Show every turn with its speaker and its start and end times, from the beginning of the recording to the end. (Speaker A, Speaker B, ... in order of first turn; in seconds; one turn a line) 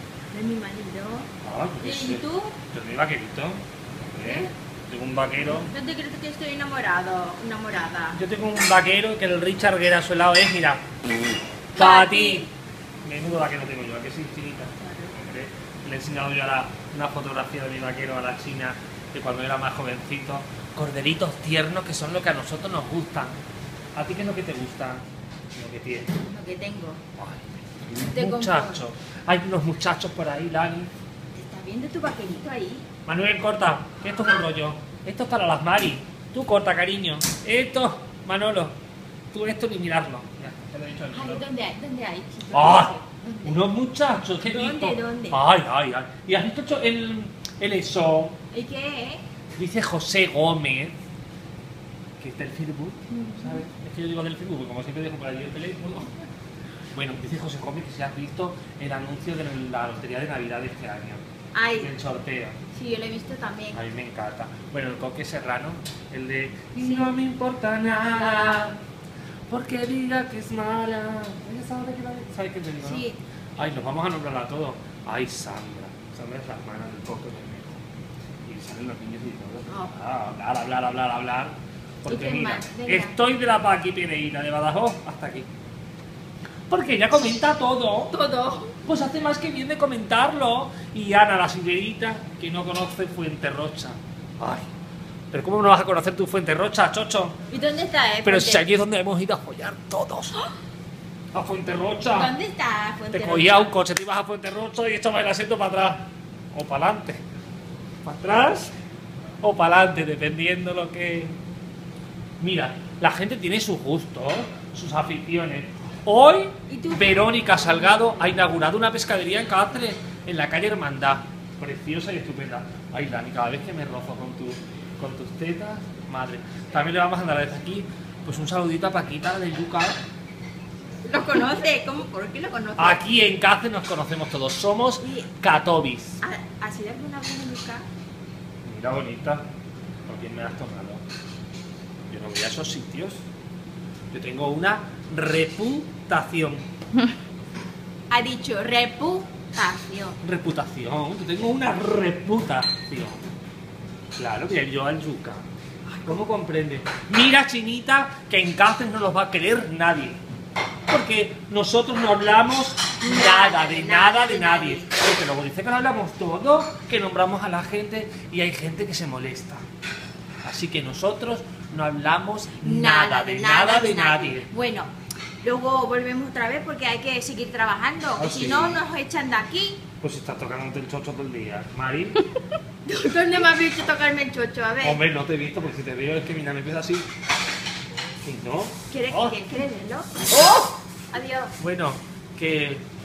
Speaker A: 0.3-1.3
Speaker B: 1.4-3.6
Speaker A: 1.8-2.6
Speaker B: 4.1-5.7
Speaker A: 4.2-4.5
Speaker A: 5.7-8.2
Speaker B: 8.1-10.8
Speaker B: 11.7-12.5
Speaker A: 11.7-12.5
Speaker B: 13.1-23.4
Speaker A: 14.8-15.1
Speaker B: 24.0-25.0
Speaker B: 25.6-26.1
Speaker A: 26.2-27.0
Speaker B: 27.2-30.9
Speaker A: 28.1-28.8
Speaker A: 31.3-32.9
Speaker B: 33.0-38.7
Speaker B: 39.3-41.5
Speaker A: 41.1-43.6
Speaker B: 42.5-48.4
Speaker A: 44.4-45.4
Speaker A: 48.5-49.2
Speaker B: 49.6-51.0
Speaker B: 52.2-56.1
Speaker A: 53.1-53.6
Speaker B: 56.9-61.2
Speaker A: 61.5-61.9
Speaker B: 61.8-62.6
Speaker A: 62.7-63.8
Speaker B: 63.7-68.8
Speaker A: 66.8-67.1
Speaker B: 69.5-73.1
Speaker A: 72.8-73.2
Speaker B: 73.6-77.8
Speaker B: 78.5-85.5
Speaker A: 82.1-83.2
Speaker B: 86.7-88.2
Speaker A: 88.1-88.8
Speaker B: 88.8-94.7
Speaker B: 95.3-97.4
Speaker A: 97.5-98.7
Speaker B: 98.2-100.4
Speaker B: 101.3-102.3
Speaker A: 102.1-103.7
Speaker B: 103.1-107.2
Speaker B: 108.0-108.7
Speaker B: 109.4-111.4
Speaker B: 112.4-130.0
Speaker A: 116.7-118.2
Speaker A: 131.1-133.0
Speaker B: 132.8-136.2
Speaker A: 135.0-135.3
Speaker A: 136.2-137.8
Speaker B: 138.7-139.4
Speaker B: 140.1-141.0
Speaker B: 142.1-143.2
Speaker B: 144.1-146.7
Speaker A: 148.1-150.2
Speaker B: 150.2-153.2
Speaker B: 154.2-155.4
Speaker B: 156.0-160.2
Speaker B: 160.9-169.6
Speaker A: 163.0-164.9
Speaker B: 170.4-174.5
Speaker A: 172.6-174.9
Speaker A: 175.4-179.8
Speaker B: 178.2-178.8
Speaker B: 180.0-182.2
Speaker A: 182.9-185.0
Speaker B: 184.8-187.1
Speaker B: 188.2-189.4
Speaker A: 188.9-191.5
Speaker B: 190.3-190.6
Speaker B: 191.6-192.8